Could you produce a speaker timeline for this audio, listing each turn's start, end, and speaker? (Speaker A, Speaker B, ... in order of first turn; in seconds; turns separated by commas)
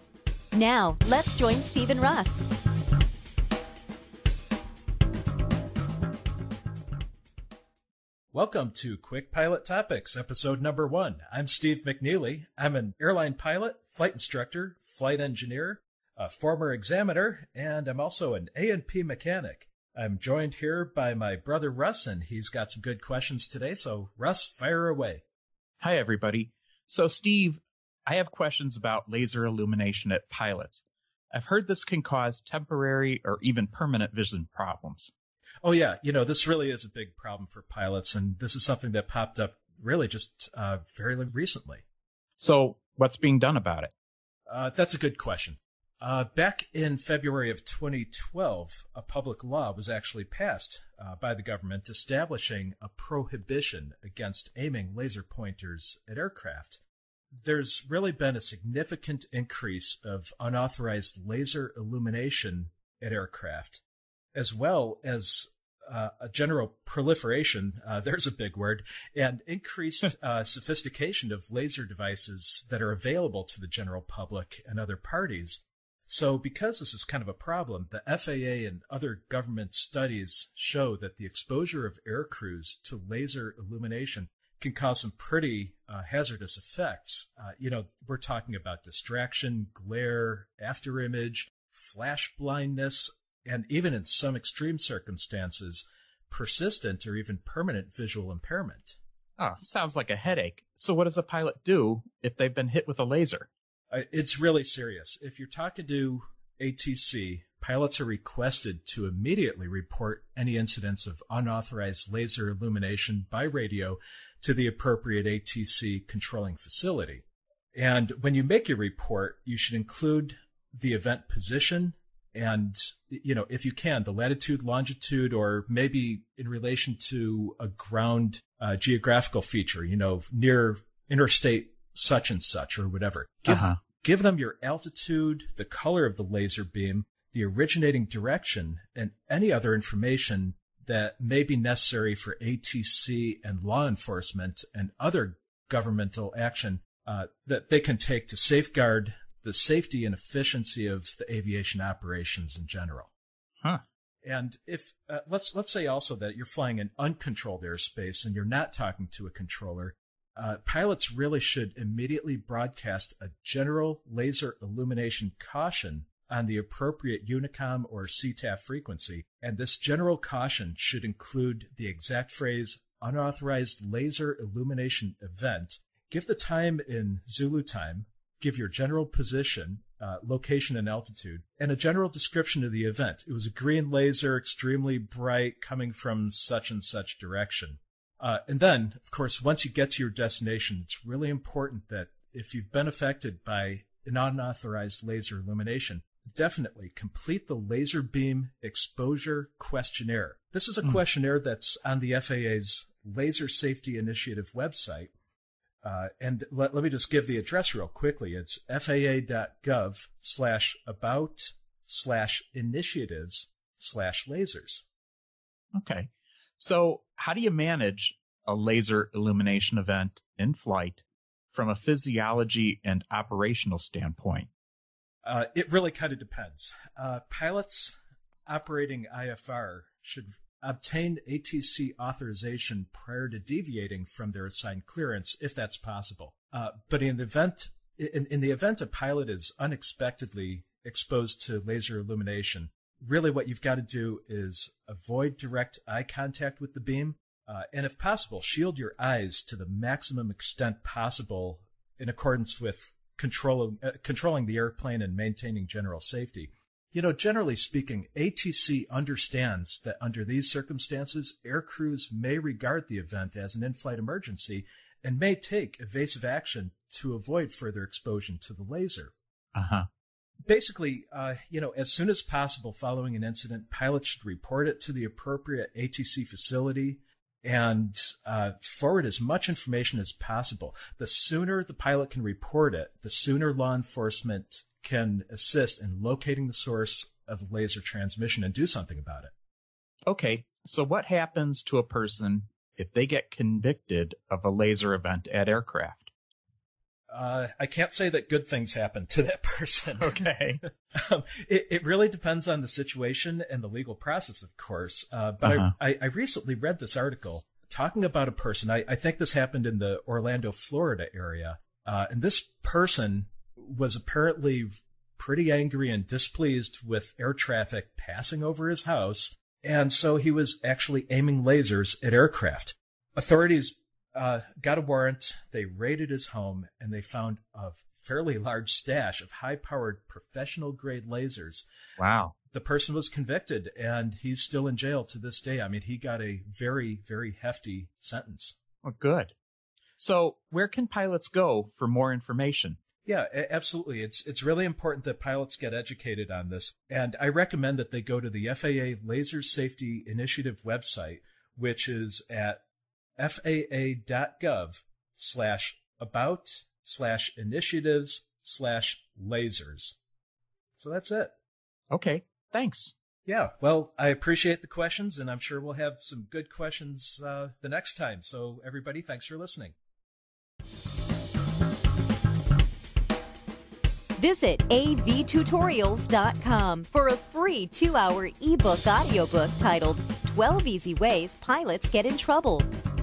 Speaker A: 0.5-2.4, Speaker B: 8.3-25.2, Speaker C: 25.8-35.1, Speaker B: 35.6-41.8, Speaker C: 42.4-43.9, Speaker B: 44.5-56.8, Speaker B: 57.4-63.8, Speaker B: 64.3-99.0, Speaker C: 99.4-103.5, Speaker B: 103.9-153.1, Speaker C: 133.4-133.8, Speaker B: 154.2-205.1, Speaker B: 205.8-214.9, Speaker C: 215.8-224.5, Speaker B: 225.2-269.1, Speaker C: 269.5-269.9, Speaker B: 270.4-289.3, Speaker C: 290.1-296.1, Speaker B: 297.1-331.7, Speaker C: 300.0-300.6, Speaker C: 305.4-305.7, Speaker C: 332.0-332.3, Speaker B: 332.5-338.6, Speaker C: 338.8-339.3, Speaker C: 340.0-342.8, Speaker B: 343.0-352.6, Speaker B: 353.2-360.0, Speaker B: 360.8-361.3, Speaker C: 361.9-362.9, Speaker B: 363.2-369.7, Speaker A: 374.2-382.7